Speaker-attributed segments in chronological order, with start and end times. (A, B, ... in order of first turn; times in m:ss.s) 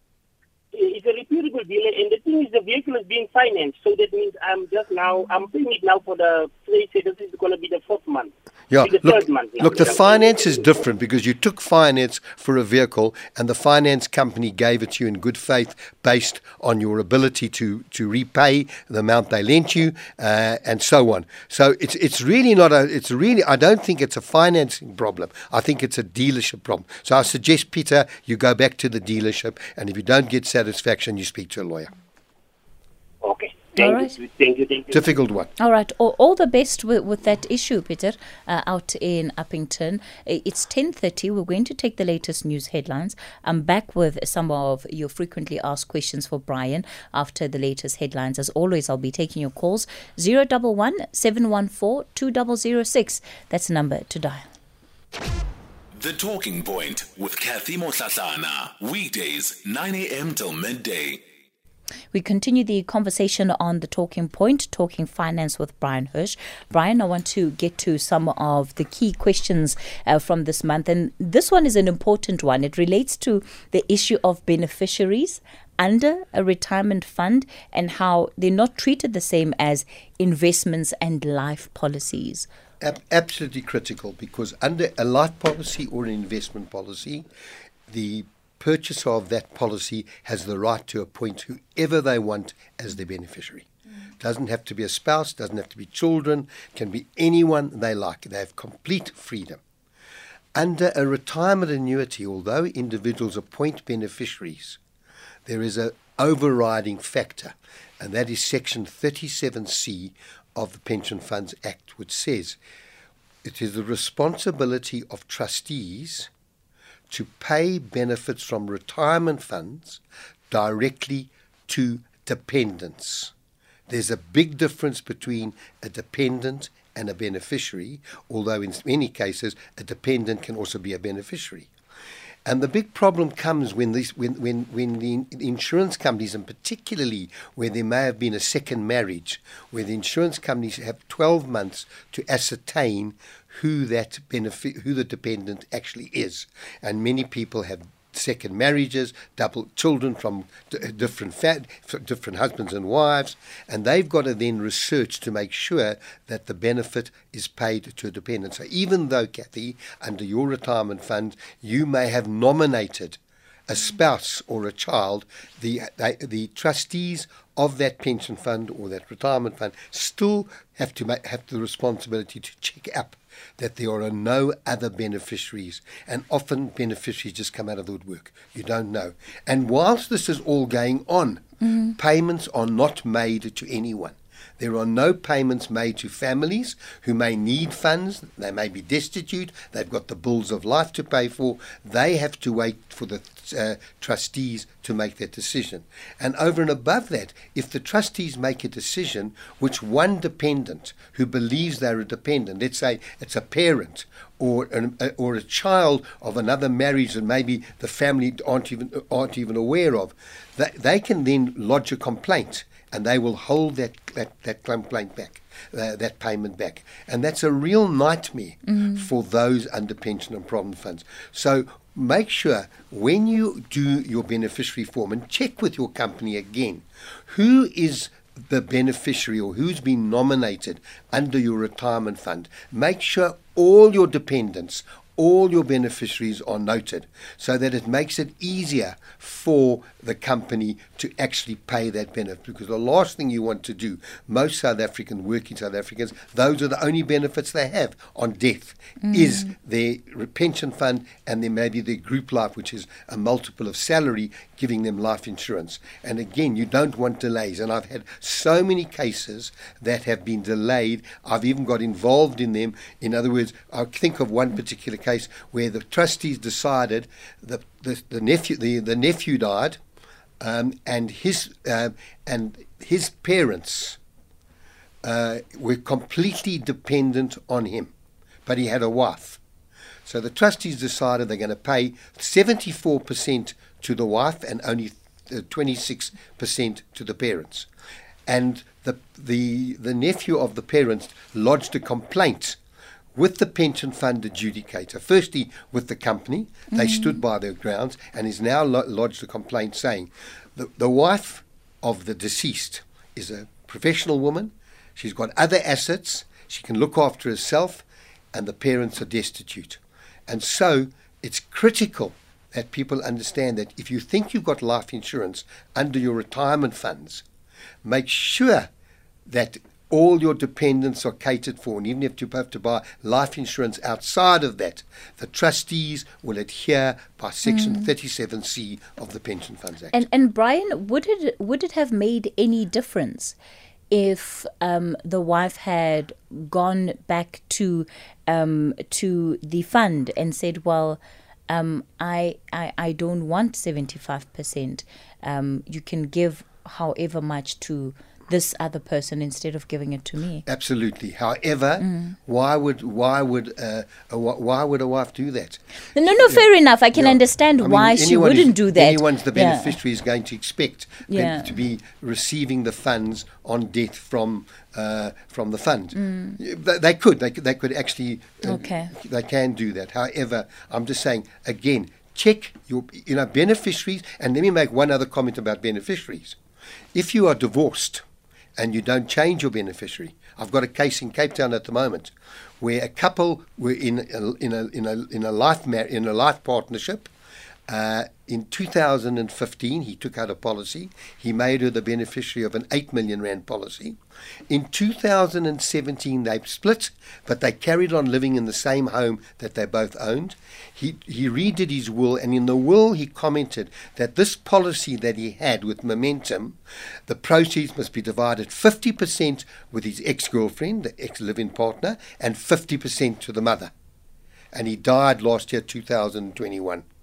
0:00.7-0:08.3 A
0:08.7-0:31.9 B
0:08.8-0:10.6 A
0:33.2-0:35.0 A
0:33.8-0:34.2 C
0:34.9-0:35.5 B
0:35.6-0:54.5 C
0:55.9-1:01.2 D
1:02.1-1:22.5 C
1:22.8-1:27.3 B
1:27.9-1:33.7 B
1:34.2-1:39.6 B
1:40.5-1:44.8 B
1:45.4-1:52.6 B
1:53.4-1:56.3 B
1:57.1-2:03.3 B
2:03.9-2:11.7 B
2:12.4-4:29.8 B
3:01.6-3:02.0 C
3:38.7-3:39.1 C
4:09.0-4:09.5 C
4:30.4-4:34.0 B
4:35.0-4:37.9 B
4:38.4-4:39.4 B
4:40.0-4:47.7 B
4:48.3-4:52.6 B
4:53.1-5:17.2 B
4:56.7-4:57.2 C
5:17.8-5:18.7 B
5:19.3-5:30.0 B
5:27.4-5:27.9 C
5:29.9-5:33.4 C
5:33.9-5:50.4 C
5:50.4-5:55.6 B
5:51.8-5:52.2 C
5:55.9-5:59.8 C
5:56.1-6:16.4 B
6:01.1-6:01.5 C
6:06.0-6:06.4 C
6:08.4-6:08.9 C
6:16.9-6:18.0 B
6:18.6-6:27.1 B
6:27.7-6:53.7 B
6:54.5-6:56.8 B